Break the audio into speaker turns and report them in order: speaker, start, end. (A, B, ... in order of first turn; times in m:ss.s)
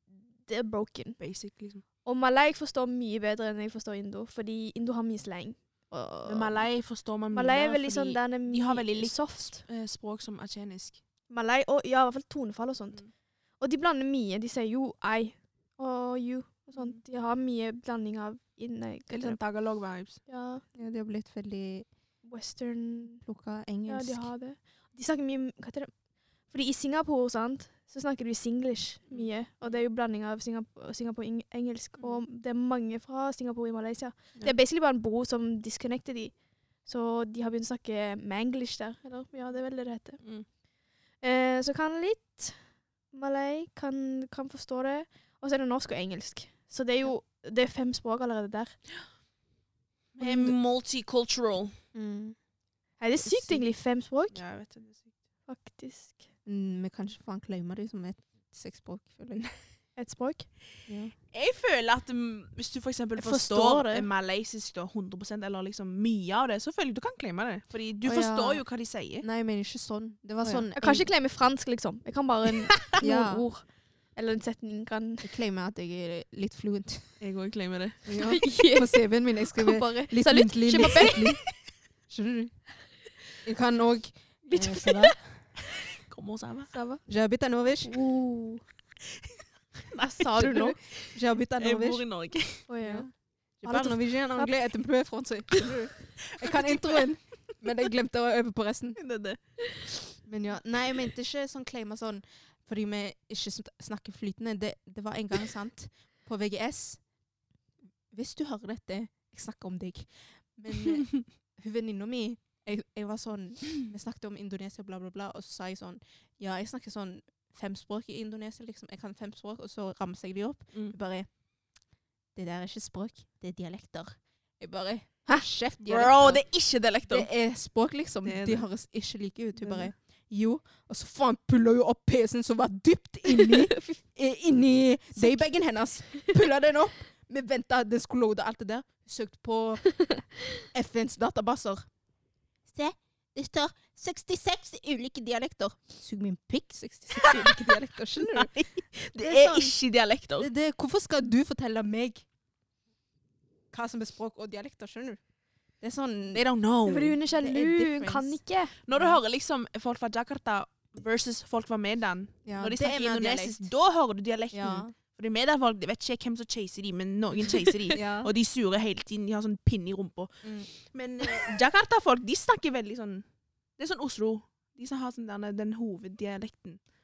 0:00.4-0:01.2 A
0:01.2-0:01.8 B
0:02.0-0:06.7 A
0:06.2-0:11.0 B
0:07.3-0:09.6 A
0:11.3-0:13.0 A
0:13.6-0:19.4 A
0:19.1-0:20.2 B
0:20.2-0:20.6 A
0:20.7-0:21.9 C
0:22.2-0:23.2 A
0:23.2-0:24.3 C
0:23.8-0:25.9 A
0:26.5-0:36.3 A
0:29.1-0:29.8 B
0:36.8-0:40.2 A
0:41.2-0:42.6 A
0:43.1-0:48.8 A
0:50.2-0:51.7 B
0:50.2-0:50.5 A
0:51.9-0:52.4 C
0:53.0-0:54.4 A
0:53.3-0:53.6 B
0:54.3-0:55.1 B
0:55.5-0:56.2 A
0:56.4-0:59.5 C
1:00.0-1:00.5 A
1:00.9-1:01.1 C
1:01.3-1:09.2 B
1:03.2-1:04.1 A
1:08.0-1:08.6 C
1:09.2-1:11.1 C
1:10.8-1:15.3 A
1:12.9-1:13.4 C
1:15.2-1:17.1 C
1:17.2-1:18.0 B
1:18.0-1:21.4 C
1:18.2-1:21.3 A
1:22.1-1:22.6 C
1:23.4-1:25.2 C
1:24.5-1:25.1 A
1:26.1-1:26.7 B
1:26.7-1:27.0 A
1:27.1-1:27.9 C
1:27.8-1:28.6 A
1:29.9-1:32.7 B
1:30.0-1:30.8 A
1:30.4-1:32.0 C
1:32.7-1:33.1 A
1:32.8-1:39.0 C
1:33.6-1:34.5 A
1:36.6-1:36.9 B
1:39.0-1:39.5 B
1:40.2-1:47.0 C
1:48.1-2:01.3 C
2:02.3-2:06.5 C
2:05.9-2:07.3 B
2:07.0-2:19.9 C
2:08.2-2:08.7 B
2:09.6-2:09.9 B
2:13.3-2:14.0 A
2:20.7-2:21.9 C
2:22.7-2:28.5 C
2:27.2-2:27.4 B
2:28.2-2:30.5 B
2:29.2-2:29.7 C
2:30.4-2:32.2 C
2:33.7-2:35.2 C
2:35.8-2:36.4 C
2:36.3-2:37.2 B
2:36.9-2:38.7 A
2:37.3-2:38.4 C
2:38.8-2:53.2 B
2:42.4-2:43.7 C
2:44.5-2:44.9 C
2:47.4-2:48.3 C
2:50.4-2:50.7 C
2:53.8-2:56.8 B